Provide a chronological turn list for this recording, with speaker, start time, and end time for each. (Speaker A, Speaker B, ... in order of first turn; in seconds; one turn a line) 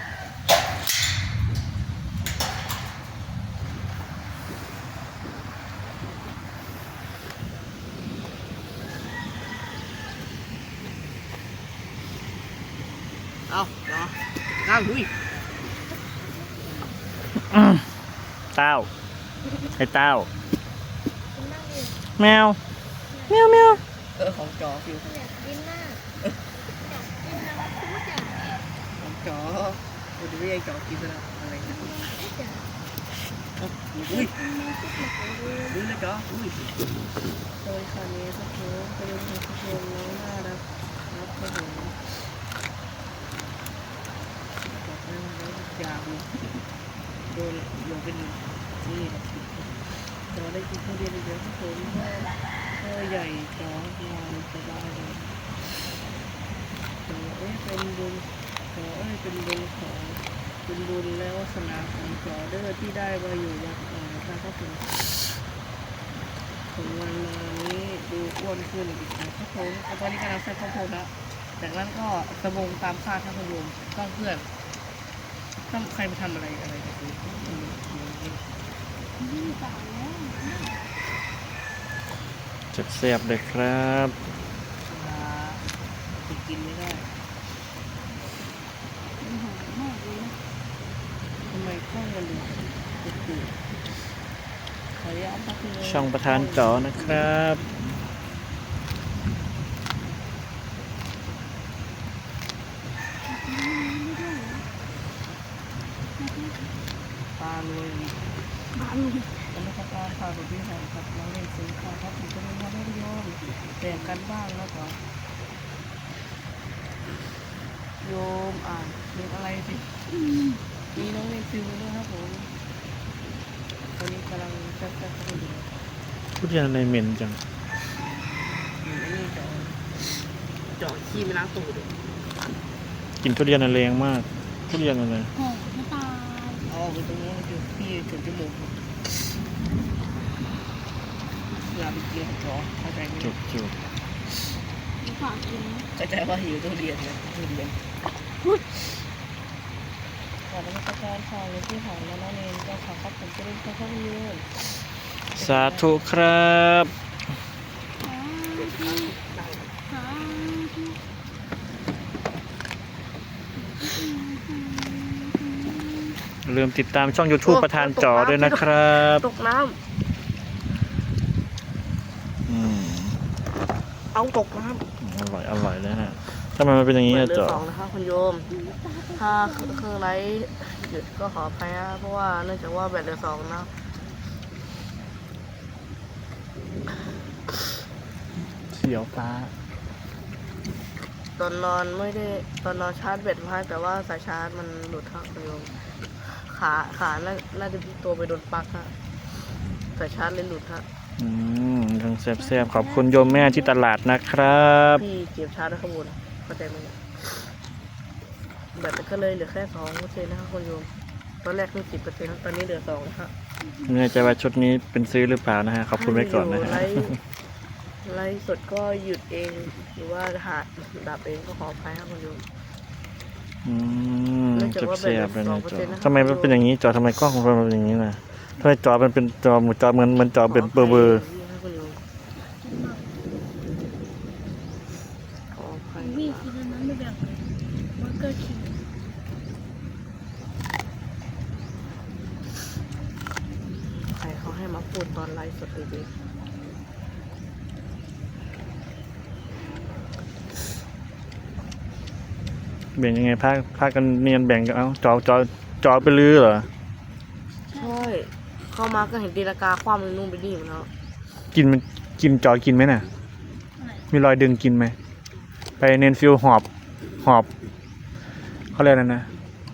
Speaker A: 13.5-15.1
Speaker B: 16.4-16.9
Speaker C: 17.5-17.8
Speaker C: 18.5-18.9
Speaker C: 19.8-20.3
Speaker B: 21.3-22.0
Speaker C: 22.2-22.6
Speaker B: 23.1-23.8
Speaker C: 23.3-23.8
Speaker A: 24.1-25.1
Speaker B: 25.0-26.0
Speaker B: 26.7-28.5
Speaker A: 29.0-31.9
Speaker B: 31.6-32.7
Speaker A: 33.6-34.3
Speaker B: 33.9-35.8
Speaker A: 35.7-36.7
Speaker A: 37.6-42.0
Speaker A: 44.6-46.4
Speaker A: 47.3-55.4
Speaker A: 57.0-65.0
Speaker A: 66.7-74.5
Speaker A: 75.7-78.4
Speaker B: 79.2-80.8
Speaker C: 82.7-84.1
Speaker A: 84.8-85.6
Speaker A: 86.2-87.1
Speaker B: 89.2-90.4
Speaker A: 91.5-93.5
Speaker A: 94.9-97.2
Speaker C: 95.8-97.7
Speaker B: 103.2-104.6
Speaker B: 106.2-106.7
Speaker A: 107.4-108.3
Speaker B: 108.7-109.3
Speaker A: 109.5-115.0
Speaker A: 118.0-119.9
Speaker A: 120.9-122.5
Speaker A: 124.0-125.7
Speaker C: 126.4-127.4
Speaker A: 128.7-129.8
Speaker A: 130.8-131.9
Speaker C: 133.2-135.3
Speaker B: 135.3-136.6
Speaker A: 136.7-138.7
Speaker A: 141.7-143.3
Speaker C: 143.2-143.8
Speaker B: 145.0-145.9
Speaker A: 145.9-147.8
Speaker A: 150.5-154.4
Speaker A: 155.3-155.9
Speaker C: 155.4-156.9
Speaker B: 158.0-159.1
Speaker A: 158.5-159.7
Speaker B: 159.9-161.0
Speaker B: 163.8-166.1
Speaker C: 166.4-169.2
Speaker A: 167.4-169.8
Speaker C: 172.5-173.2
Speaker A: 174.1-174.8
Speaker C: 175.0-177.6
Speaker A: 177.1-178.5
Speaker B: 178.5-179.9
Speaker A: 179.1-183.7
Speaker C: 188.7-189.5
Speaker A: 191.4-198.9
Speaker A: 199.9-200.8
Speaker C: 201.2-205.0
Speaker B: 202.4-203.8
Speaker A: 204.9-207.0
Speaker A: 208.7-210.9
Speaker A: 211.4-213.3
Speaker C: 213.9-217.1
Speaker A: 215.9-217.2
Speaker A: 218.0-222.4
Speaker C: 223.6-231.2
Speaker A: 224.5-226.6
Speaker A: 230.4-232.0
Speaker B: 232.6-233.1
Speaker A: 235.5-236.5
Speaker B: 236.0-238.8
Speaker A: 243.9-246.1
Speaker C: 252.9-256.7
Speaker B: 257.7-258.0
Speaker A: 257.7-260.9
Speaker C: 261.5-263.1
Speaker B: 263.8-264.0
Speaker C: 264.1-264.9
Speaker C: 265.8-266.6
Speaker C: 267.2-267.5
Speaker C: 268.7-269.3